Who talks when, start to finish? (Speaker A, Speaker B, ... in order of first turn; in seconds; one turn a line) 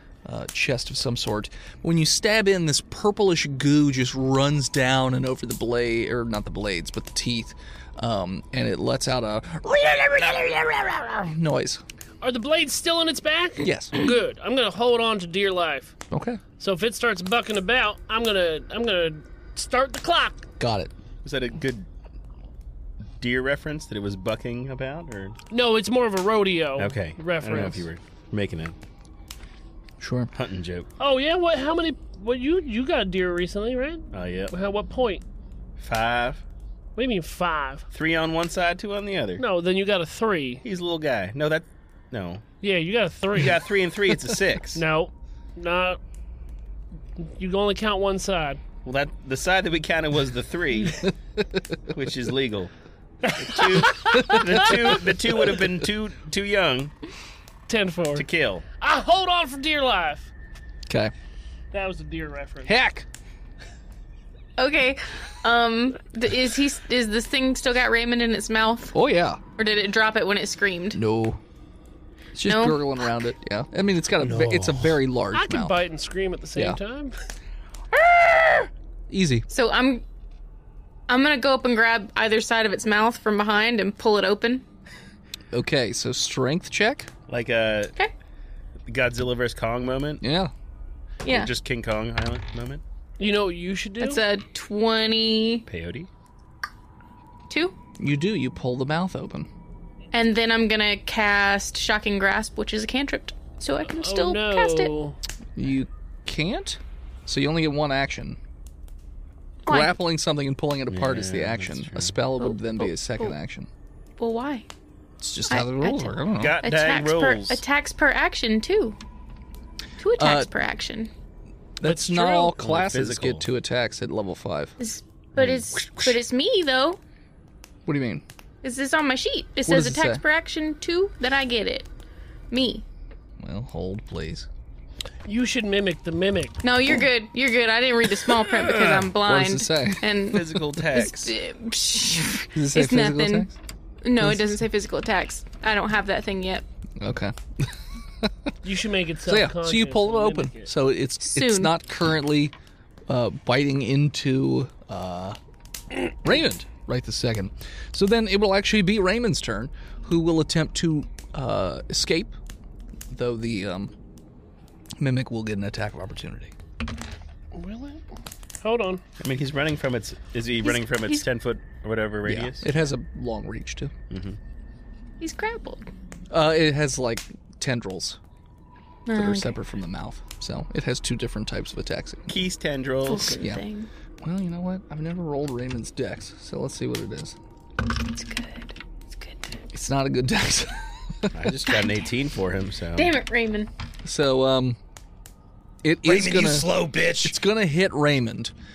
Speaker A: 0.2-11.8
Speaker B: 12.2-15.9
Speaker A: 13.6-13.9
Speaker A: 16.1-16.4
Speaker B: 16.6-20.5
Speaker A: 20.6-20.9
Speaker C: 21.2-21.9
Speaker C: 23.2-25.4
Speaker B: 25.5-27.9
Speaker C: 26.8-28.8
Speaker A: 30.0-30.3
Speaker C: 30.3-30.9
Speaker B: 31.0-35.2
Speaker C: 34.1-34.5
Speaker C: 35.8-36.4
Speaker B: 37.0-37.8
Speaker C: 37.9-39.4
Speaker B: 39.4-40.6
Speaker C: 40.6-42.4
Speaker B: 42.6-43.6
Speaker C: 43.4-44.8
Speaker B: 44.7-46.0
Speaker B: 47.2-48.6
Speaker C: 48.8-51.1
Speaker C: 51.9-52.7
Speaker B: 53.2-54.9
Speaker C: 53.3-56.9
Speaker B: 57.7-58.3
Speaker C: 58.1-58.6
Speaker B: 58.8-60.3
Speaker A: 60.9-61.1
Speaker B: 61.7-62.7
Speaker A: 62.6-63.0
Speaker D: 64.6-69.0
Speaker A: 68.9-69.4
Speaker D: 69.6-71.0
Speaker A: 70.9-71.4
Speaker A: 72.3-75.8
Speaker D: 72.5-73.1
Speaker E: 74.2-74.9
Speaker B: 75.3-77.1
Speaker A: 79.1-79.5
Speaker D: 79.5-80.0
Speaker D: 81.1-84.6
Speaker A: 85.5-87.1
Speaker C: 87.3-87.9
Speaker C: 88.9-90.2
Speaker A: 90.2-90.5
Speaker D: 91.2-91.5
Speaker C: 91.2-92.8
Speaker B: 93.2-94.2
Speaker D: 94.0-95.7
Speaker C: 95.7-96.1
Speaker D: 97.5-97.7
Speaker A: 98.0-99.5
Speaker D: 100.1-104.9
Speaker B: 103.9-105.2
Speaker A: 105.5-108.4
Speaker D: 109.7-110.0
Speaker A: 109.7-113.7
Speaker C: 110.9-112.1
Speaker D: 112.4-113.3
Speaker D: 114.2-114.7
Speaker A: 115.2-116.6
Speaker D: 115.5-119.0
Speaker C: 116.3-117.6
Speaker D: 120.0-121.1
Speaker A: 120.2-120.5
Speaker A: 121.8-124.7
Speaker B: 121.8-122.5
Speaker C: 122.6-123.5
Speaker D: 124.8-127.0
Speaker A: 127.8-128.2
Speaker D: 128.6-131.9
Speaker A: 129.7-130.2
Speaker D: 132.5-132.8
Speaker A: 133.4-134.5
Speaker B: 135.2-136.6
Speaker D: 136.6-143.5
Speaker A: 138.6-140.6
Speaker C: 140.3-141.3
Speaker A: 142.5-143.5
Speaker D: 144.0-146.6
Speaker A: 144.2-144.6
Speaker A: 147.0-148.3
Speaker B: 148.6-150.7
Speaker A: 149.3-152.5
Speaker D: 151.2-151.8
Speaker A: 153.1-155.4
Speaker A: 156.1-162.3
Speaker A: 163.1-163.9
Speaker A: 165.0-166.5
Speaker B: 167.5-168.0
Speaker B: 168.6-169.0
Speaker C: 169.2-172.7
Speaker D: 170.6-171.2
Speaker A: 172.2-173.9
Speaker C: 174.1-174.4
Speaker D: 175.2-175.9
Speaker A: 176.3-178.2
Speaker D: 179.1-179.6
Speaker A: 179.1-182.4
Speaker C: 182.3-183.4
Speaker D: 183.0-183.9
Speaker A: 183.3-183.6
Speaker A: 184.2-187.3
Speaker D: 187.9-189.6
Speaker A: 189.7-191.3
Speaker C: 191.3-193.1
Speaker D: 191.7-192.0
Speaker D: 192.9-193.7
Speaker A: 194.0-194.8
Speaker A: 195.8-196.7
Speaker E: 196.0-197.3
Speaker A: 197.2-198.5